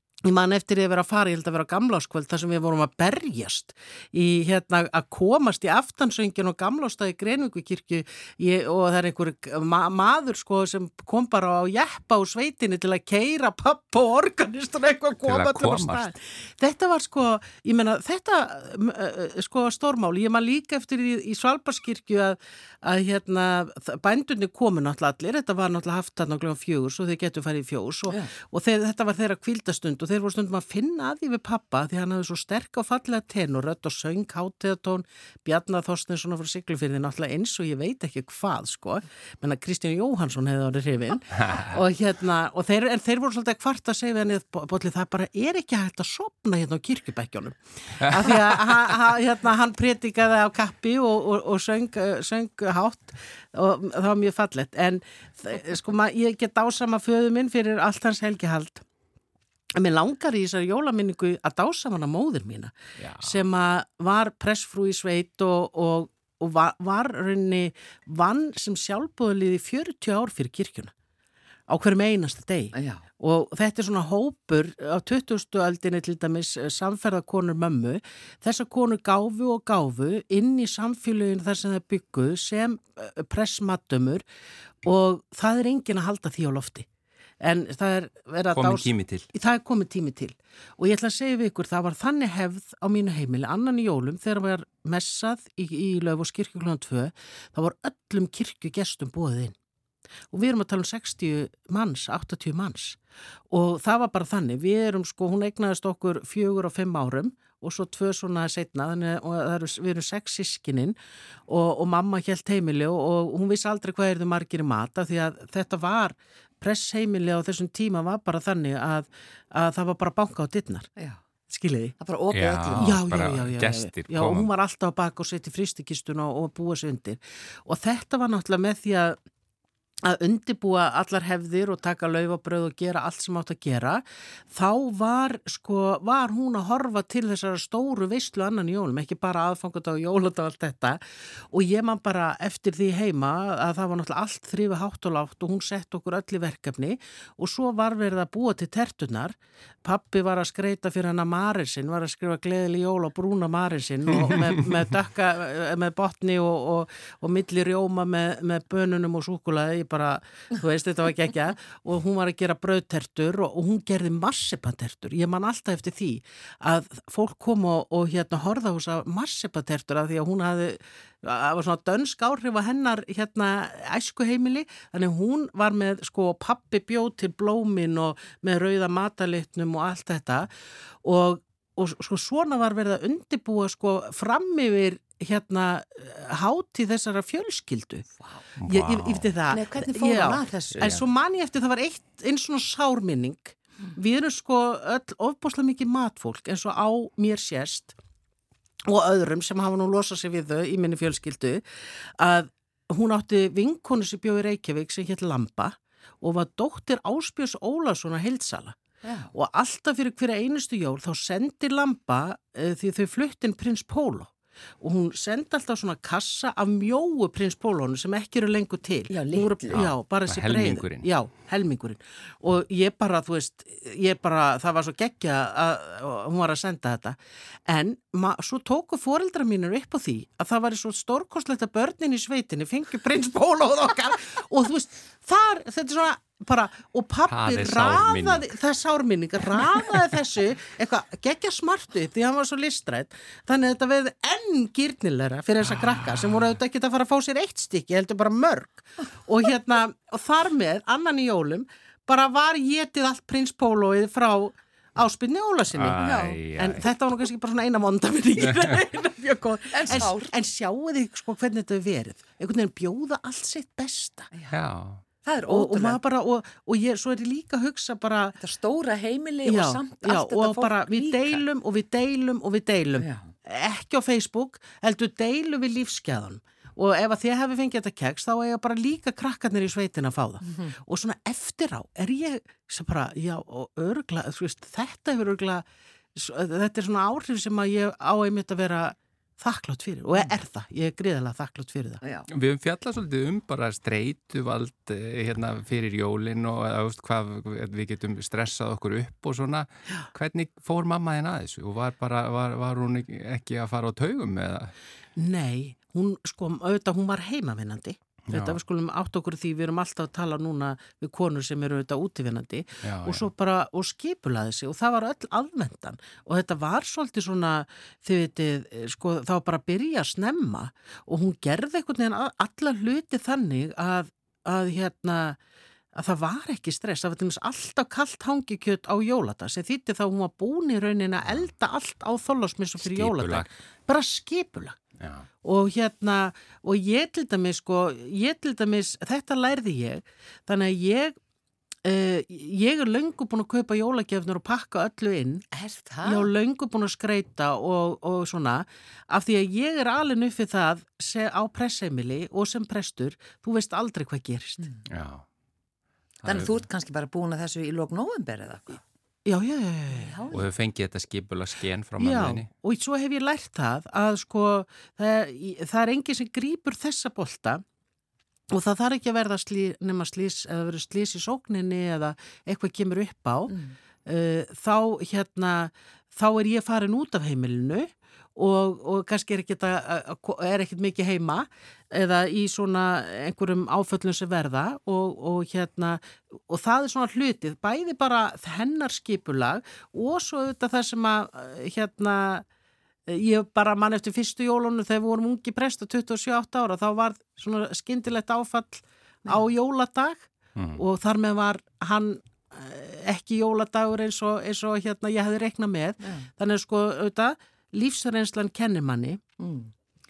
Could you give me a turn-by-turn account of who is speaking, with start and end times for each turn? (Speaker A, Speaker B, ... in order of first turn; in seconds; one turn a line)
Speaker A: 0.2-58.9
Speaker B: 15.2-16.1
Speaker A: 59.8-70.9
Speaker B: 63.0-63.4
Speaker A: 71.7-84.2
Speaker C: 72.7-73.0
Speaker A: 84.8-86.9
Speaker A: 87.4-99.5
Speaker B: 88.5-89.3
Speaker A: 100.3-103.0
Speaker A: 103.5-111.0
Speaker A: 111.5-120.9
Speaker A: 121.5-121.9
Speaker C: 122.0-123.0
Speaker B: 122.3-124.5
Speaker A: 122.8-129.2
Speaker A: 130.0-180.5
Speaker A: 181.0-188.1
Speaker C: 188.2-188.4
Speaker B: 188.6-189.2
Speaker A: 188.7-197.9
Speaker C: 189.5-191.0
Speaker A: 198.9-201.6
Speaker A: 202.2-208.8
Speaker C: 209.0-209.3
Speaker A: 209.3-256.0
Speaker C: 219.1-219.8
Speaker B: 219.7-221.1
Speaker B: 237.3-238.5
Speaker B: 255.8-256.9
Speaker C: 255.9-256.4
Speaker A: 256.6-264.3
Speaker C: 259.7-260.3
Speaker B: 264.5-265.0
Speaker C: 265.2-266.0
Speaker A: 265.5-268.4
Speaker C: 268.4-271.4
Speaker A: 269.4-292.0
Speaker C: 272.9-273.3
Speaker C: 280.5-280.8
Speaker B: 292.3-304.7
Speaker A: 305.2-325.4
Speaker B: 308.3-308.6
Speaker B: 312.8-313.3
Speaker A: 325.9-334.8
Speaker B: 332.8-333.5
Speaker B: 335.0-335.3
Speaker A: 335.4-341.2
Speaker A: 341.8-345.4
Speaker C: 345.5-346.3
Speaker A: 346.0-354.7
Speaker B: 354.9-355.2
Speaker B: 356.2-356.6
Speaker C: 356.2-358.8
Speaker A: 359.3-360.2
Speaker C: 359.9-360.5
Speaker B: 360.3-362.5
Speaker A: 362.0-367.6
Speaker A: 368.5-373.5
Speaker C: 373.5-373.8
Speaker A: 374.1-392.4
Speaker A: 393.1-409.2
Speaker B: 400.6-400.8
Speaker C: 406.0-406.3
Speaker C: 409.4-409.7